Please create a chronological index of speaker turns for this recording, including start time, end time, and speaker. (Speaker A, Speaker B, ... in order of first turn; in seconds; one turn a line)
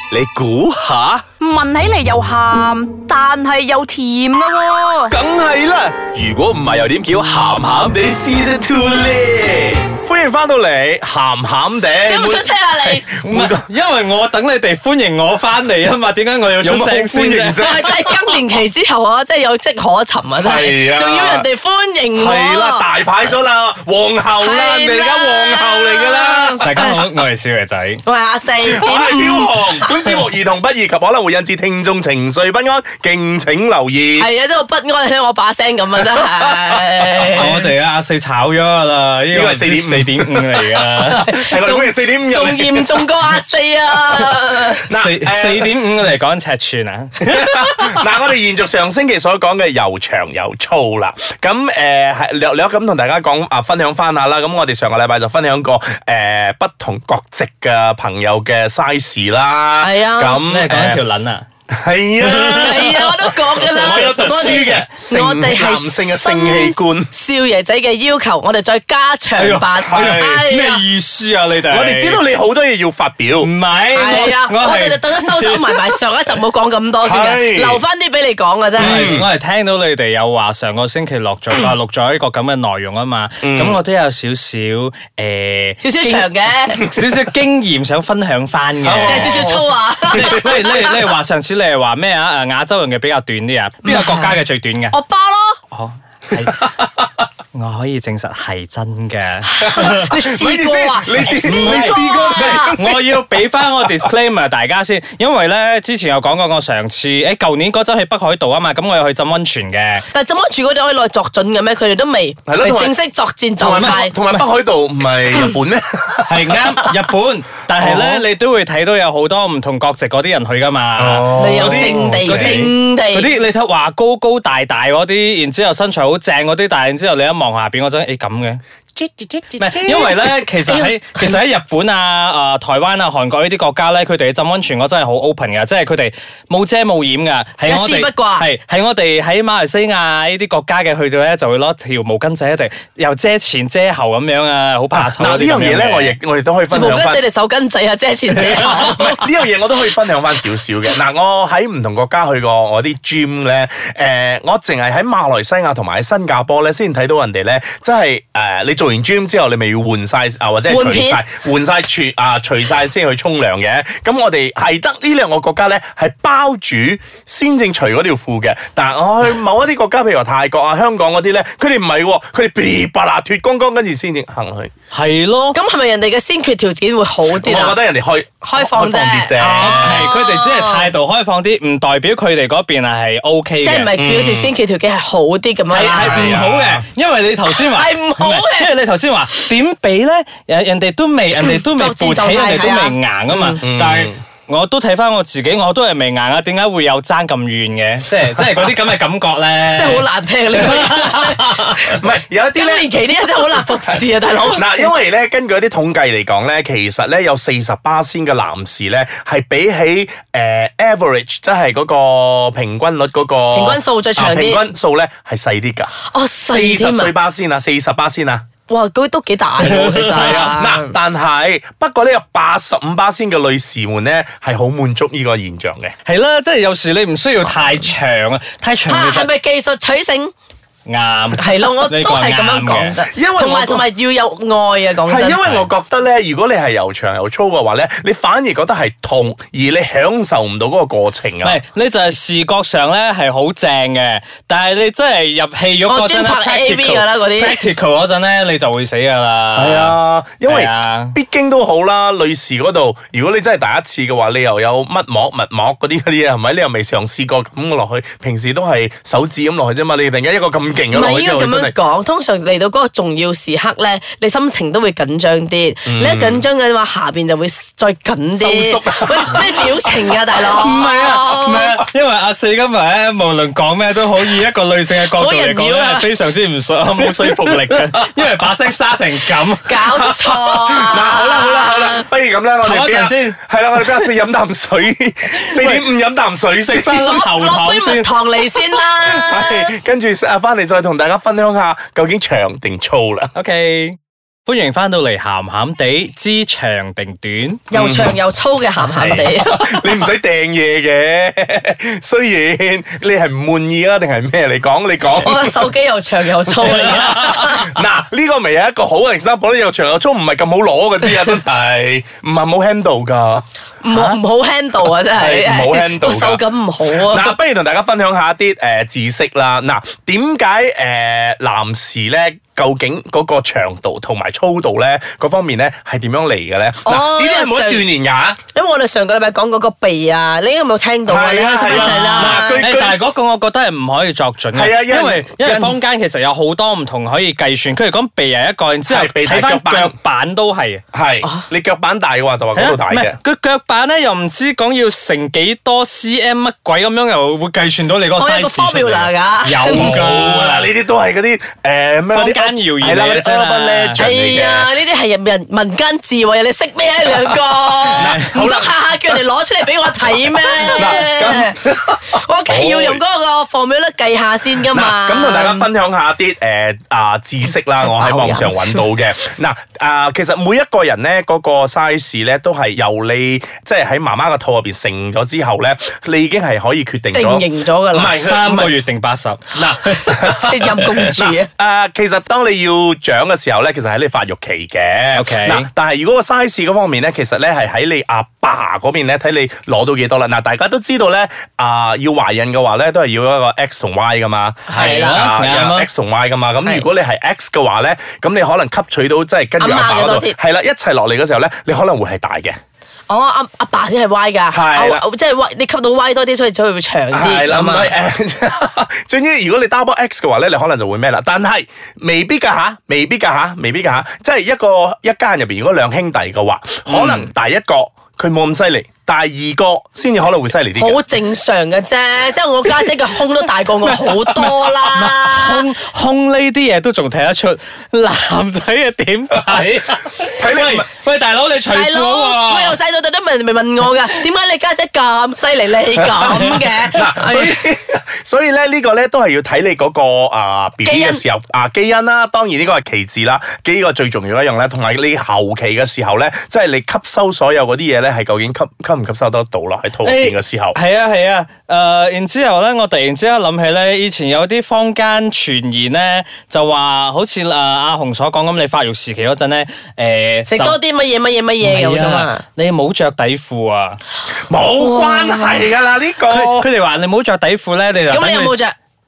Speaker A: 0.1-1.3
Speaker B: 1.7-4.3
Speaker A: 4.7-9.8
Speaker C: 5.1-6.2
Speaker C: 8.1-13.7
Speaker D: 12.1-13.0
Speaker E: 13.2-18.4
Speaker C: 16.6-17.9
Speaker D: 17.6-22.9
Speaker C: 20.4-21.5
Speaker C: 22.1-26.7
Speaker D: 24.4-27.0
Speaker E: 26.6-28.0
Speaker D: 28.0-30.1
Speaker C: 28.6-34.3
Speaker D: 34.2-37.7
Speaker C: 36.2-37.6
Speaker E: 37.3-41.3
Speaker C: 39.3-43.1
Speaker D: 41.0-44.9
Speaker E: 44.8-48.0
Speaker C: 44.9-45.8
Speaker C: 47.2-61.0
Speaker D: 59.8-60.4
Speaker E: 60.4-61.5
Speaker C: 61.7-67.1
Speaker E: 62.2-64.7
Speaker D: 62.5-70.8
Speaker E: 69.4-72.2
Speaker C: 69.8-70.4
Speaker C: 71.7-73.5
Speaker E: 73.4-76.0
Speaker D: 73.9-79.1
Speaker C: 77.0-77.8
Speaker E: 78.8-95.0
Speaker C: 78.8-79.3
Speaker C: 83.4-83.8
Speaker D: 85.8-86.8
Speaker C: 88.8-89.6
Speaker D: 89.1-91.0
Speaker D: 93.8-94.4
Speaker D: 94.9-95.6
Speaker E: 95.7-96.7
Speaker C: 96.4-96.9
Speaker E: 97.5-100.1
Speaker D: 99.5-102.8
Speaker C: 99.6-103.2
Speaker E: 101.4-110.1
Speaker D: 110.1-114.2
Speaker C: 112.5-112.9
Speaker C: 113.6-116.6
Speaker E: 113.7-114.5
Speaker E: 116.3-128.6
Speaker C: 117.8-118.2
Speaker C: 121.0-122.7
Speaker D: 121.3-123.3
Speaker C: 129.0-130.2
Speaker E: 129.6-146.2
Speaker D: 129.9-131.4
Speaker D: 137.7-138.5
Speaker C: 144.9-147.2
Speaker D: 146.7-149.3
Speaker C: 148.3-174.7
Speaker D: 160.7-161.2
Speaker E: 174.9-175.6
Speaker D: 175.5-177.8
Speaker C: 177.3-180.1
Speaker D: 178.4-180.9
Speaker E: 179.4-183.9
Speaker D: 183.6-186.4
Speaker C: 184.0-184.5
Speaker E: 185.7-200.1
Speaker C: 185.9-186.8
Speaker D: 187.5-188.7
Speaker D: 191.5-193.6
Speaker C: 193.6-194.2
Speaker D: 199.7-204.9
Speaker E: 200.6-201.8
Speaker C: 201.9-202.9
Speaker C: 203.5-215.9
Speaker D: 213.5-214.6
Speaker D: 216.0-217.2
Speaker C: 216.5-218.4
Speaker D: 218.7-221.0
Speaker E: 219.6-220.4
Speaker C: 219.8-225.9
Speaker E: 226.1-229.3
Speaker D: 228.9-230.3
Speaker E: 230.9-233.0
Speaker D: 231.4-235.4
Speaker C: 233.1-233.9
Speaker C: 235.1-241.6
Speaker E: 235.4-235.7
Speaker E: 241.4-251.2
Speaker D: 245.9-247.6
Speaker C: 249.6-261.8
Speaker D: 260.9-271.8
Speaker C: 265.9-266.5
Speaker C: 268.4-270.0
Speaker E: 270.4-279.9
Speaker D: 275.1-276.3
Speaker D: 279.6-282.1
Speaker C: 279.9-287.1
Speaker E: 282.6-284.1
Speaker E: 285.4-285.9
Speaker E: 286.6-288.1
Speaker D: 286.9-289.7
Speaker C: 289.0-293.3
Speaker E: 293.4-297.6
Speaker D: 297.7-299.7
Speaker C: 297.7-298.2
Speaker C: 299.0-305.7
Speaker D: 305.2-307.8
Speaker C: 306.5-313.4
Speaker D: 313.8-317.4
Speaker C: 315.1-328.4
Speaker D: 326.9-327.9
Speaker D: 328.5-332.7
Speaker C: 331.1-333.0
Speaker E: 331.6-340.8
Speaker C: 334.5-335.8
Speaker C: 338.9-340.0
Speaker C: 340.9-343.2
Speaker E: 342.6-350.7
Speaker D: 348.2-350.1
Speaker C: 349.7-354.7
Speaker E: 352.1-354.1
Speaker D: 354.0-365.7
Speaker E: 357.9-358.3
Speaker C: 357.9-359.2
Speaker C: 360.6-363.0
Speaker C: 364.7-378.7
Speaker D: 367.8-368.9
Speaker D: 377.1-378.3
Speaker E: 378.1-379.6
Speaker C: 379.5-402.6
Speaker D: 379.8-381.5
Speaker E: 385.1-385.7
Speaker D: 394.7-395.2
Speaker E: 394.8-395.9
Speaker D: 399.6-400.4
Speaker D: 403.1-407.9
Speaker C: 404.5-405.0
Speaker C: 407.1-421.0
Speaker E: 416.9-417.3
Speaker D: 420.8-425.6
Speaker E: 424.8-432.8
Speaker C: 430.3-430.9
Speaker D: 431.7-437.6
Speaker C: 436.0-450.8
Speaker E: 436.2-436.7
Speaker D: 440.8-441.2
Speaker E: 450.0-460.8
Speaker D: 460.5-462.4
Speaker E: 461.6-464.0
Speaker C: 464.5-466.7
Speaker D: 464.8-465.7
Speaker E: 466.3-468.5
Speaker D: 468.1-468.8